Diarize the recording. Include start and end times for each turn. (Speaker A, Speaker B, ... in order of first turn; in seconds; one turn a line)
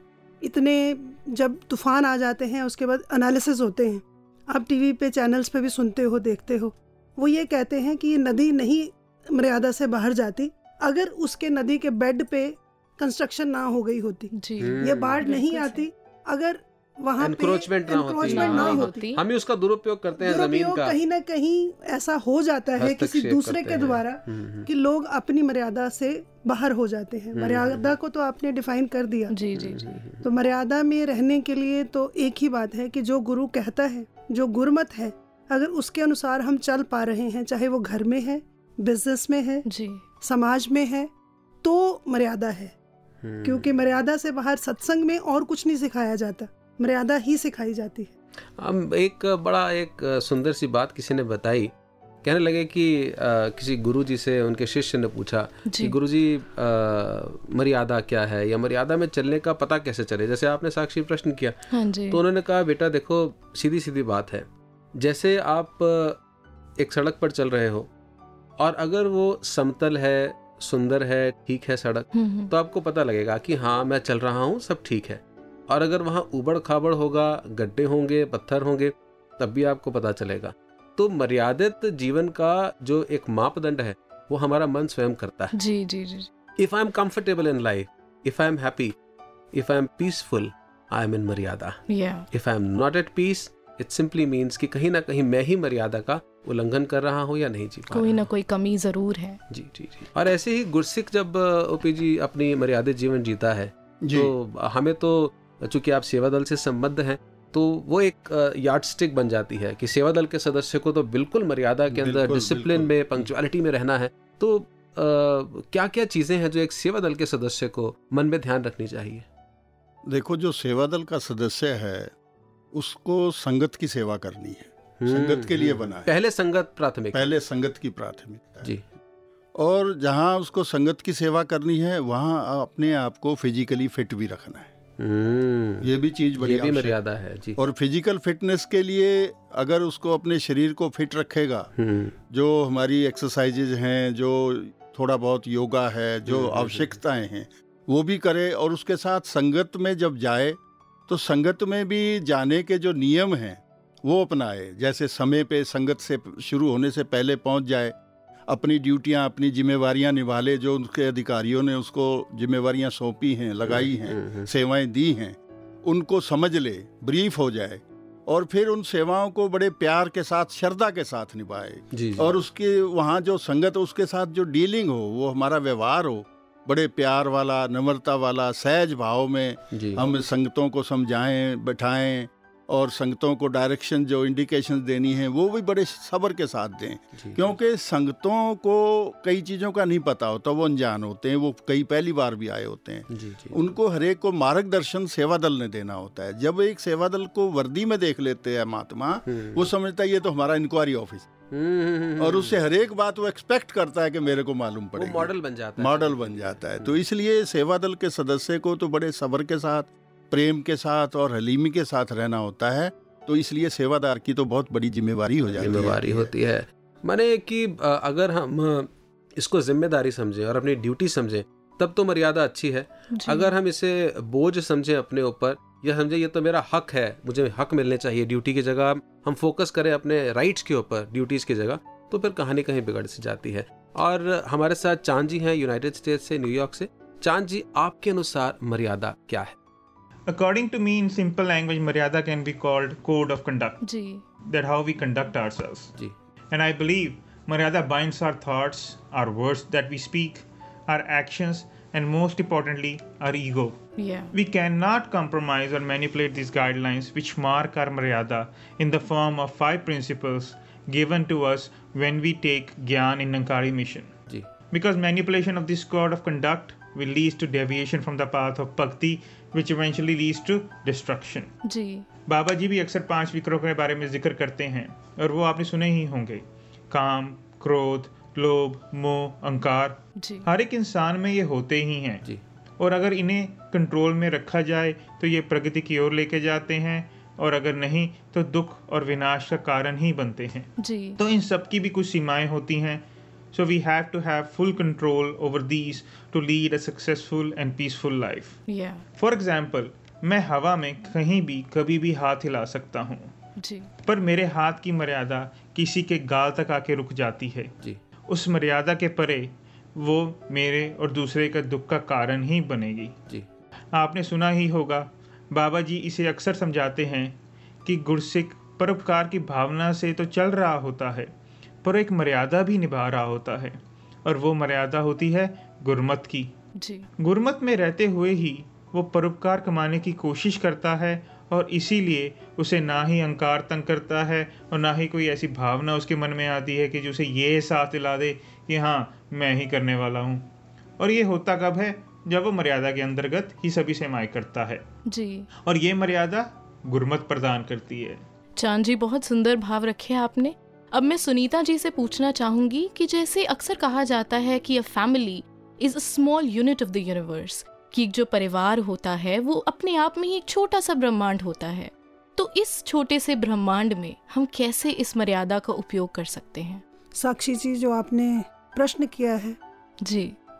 Speaker A: 0.4-19.0
Speaker B: 14.3-15.9
Speaker C: 14.6-15.2
Speaker C: 17.2-20.9
Speaker B: 18.2-19.2
Speaker A: 20.2-29.3
Speaker C: 22.8-24.7
Speaker C: 27.3-27.9
Speaker B: 29.3-30.0
Speaker C: 29.6-30.2
Speaker A: 30.2-39.6
Speaker B: 39.6-40.0
Speaker A: 40.2-41.1
Speaker A: 41.6-42.7
Speaker C: 43.2-43.7
Speaker A: 43.4-48.1
Speaker C: 48.6-51.7
Speaker C: 52.2-61.6
Speaker B: 55.7-55.9
Speaker B: 61.7-62.2
Speaker C: 62.1-66.2
Speaker C: 66.8-67.9
Speaker C: 68.6-85.5
Speaker B: 72.1-72.5
Speaker B: 85.5-86.3
Speaker C: 86.6-88.9
Speaker C: 89.5-91.8
Speaker B: 91.9-92.2
Speaker C: 92.3-98.2
Speaker B: 97.9-99.4
Speaker C: 99.5-119.2
Speaker D: 104.0-104.3
Speaker D: 111.9-113.3
Speaker D: 120.0-122.1
Speaker D: 122.7-126.1
Speaker C: 125.0-127.3
Speaker D: 127.1-128.7
Speaker D: 129.6-134.7
Speaker C: 135.0-137.6
Speaker D: 135.8-137.0
Speaker D: 137.6-141.7
Speaker C: 141.8-142.1
Speaker D: 142.3-157.9
Speaker C: 146.3-146.9
Speaker D: 158.5-201.3
Speaker C: 163.7-164.5
Speaker C: 171.9-172.3
Speaker C: 179.7-180.0
Speaker C: 187.2-187.5
Speaker C: 193.1-193.6
Speaker C: 199.3-199.7
Speaker C: 201.5-202.6
Speaker D: 202.2-216.3
Speaker C: 204.9-206.9
Speaker C: 215.6-239.5
Speaker B: 223.1-223.5
Speaker E: 240.3-243.8
Speaker B: 243.8-244.2
Speaker E: 244.4-245.9
Speaker E: 246.5-253.8
Speaker B: 254.0-254.3
Speaker E: 254.3-264.1
Speaker E: 264.7-271.5
Speaker B: 271.6-272.0
Speaker E: 272.3-282.2
Speaker B: 280.2-280.5
Speaker E: 282.8-298.6
Speaker B: 290.8-291.2
Speaker B: 298.7-299.0
Speaker E: 299.2-303.3
Speaker B: 303.6-303.9
Speaker E: 304.1-307.7
Speaker E: 308.3-313.1
Speaker E: 313.9-321.3
Speaker E: 321.8-326.5
Speaker B: 326.8-327.1
Speaker E: 327.2-344.8
Speaker B: 345.1-345.5
Speaker E: 345.6-348.2
Speaker B: 348.6-366.8
Speaker A: 367.2-369.6
Speaker B: 370.0-370.3